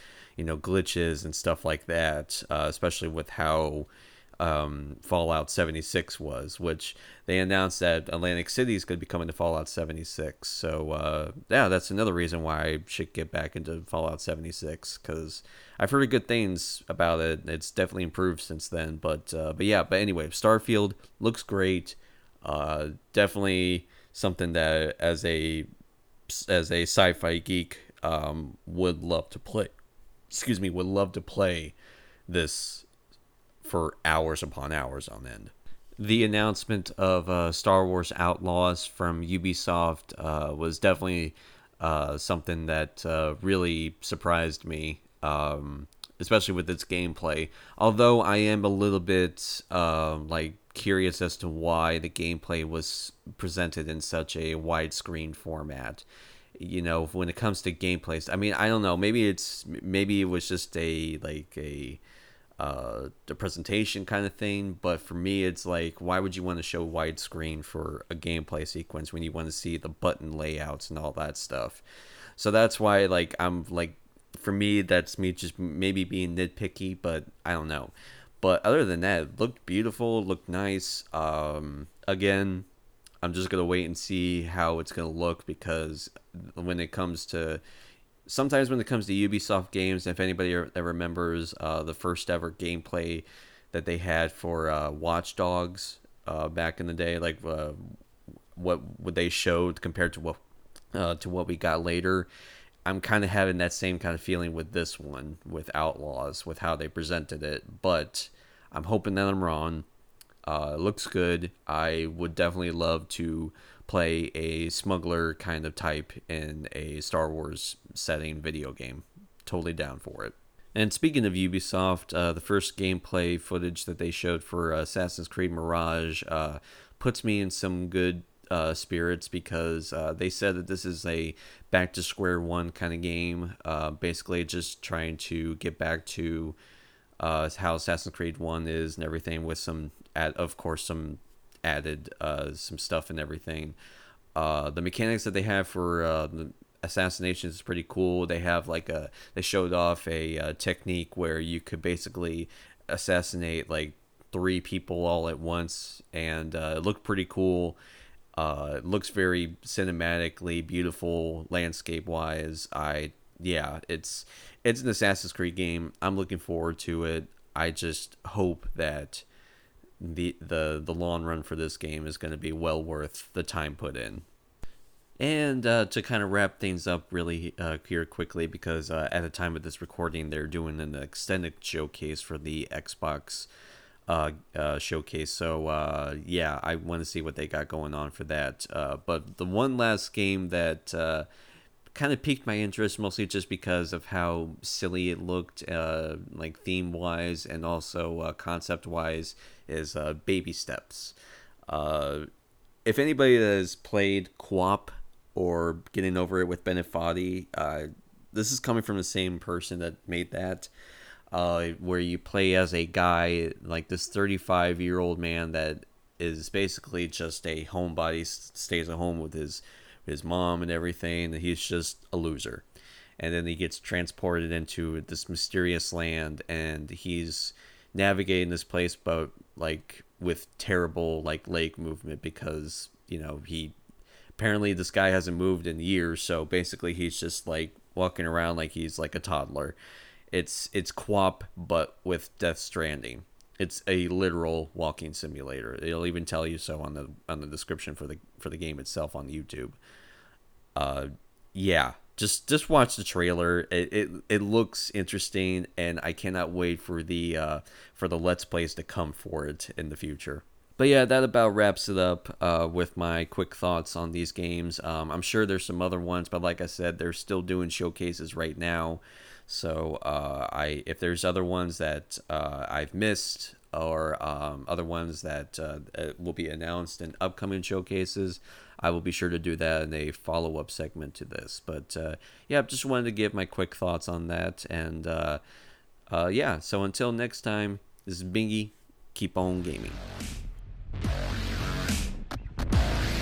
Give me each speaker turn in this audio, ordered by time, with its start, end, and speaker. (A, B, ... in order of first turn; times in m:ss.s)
0:00.4-0:03.9 A
0:04.4-0:25.7 A
0:26.3-0:29.7 A
0:30.3-0:31.8 A
0:32.3-0:32.8 A
0:33.6-0:56.0 A
0:56.6-1:02.0 A
1:02.6-1:11.8 A
1:12.4-1:22.6 A
1:23.2-1:27.6 A
1:28.2-1:37.8 A
1:38.5-1:40.4 A
1:40.9-1:42.3 A
1:42.8-1:49.8 A
1:50.4-2:16.6 A
2:17.2-2:23.8 A
2:24.4-2:37.8 A
2:38.4-2:49.2 A
2:50.0-2:54.2 A
2:55.2-3:03.5 A
3:04.1-3:11.3 A
3:11.9-3:21.1 A
3:21.7-3:22.2 A
3:22.8-3:30.7 A
3:31.3-3:42.6 A
3:43.2-3:53.7 A
3:54.4-3:59.8 A
4:00.3-4:09.8 A
4:10.8-4:45.4 A
4:46.1-4:50.0 A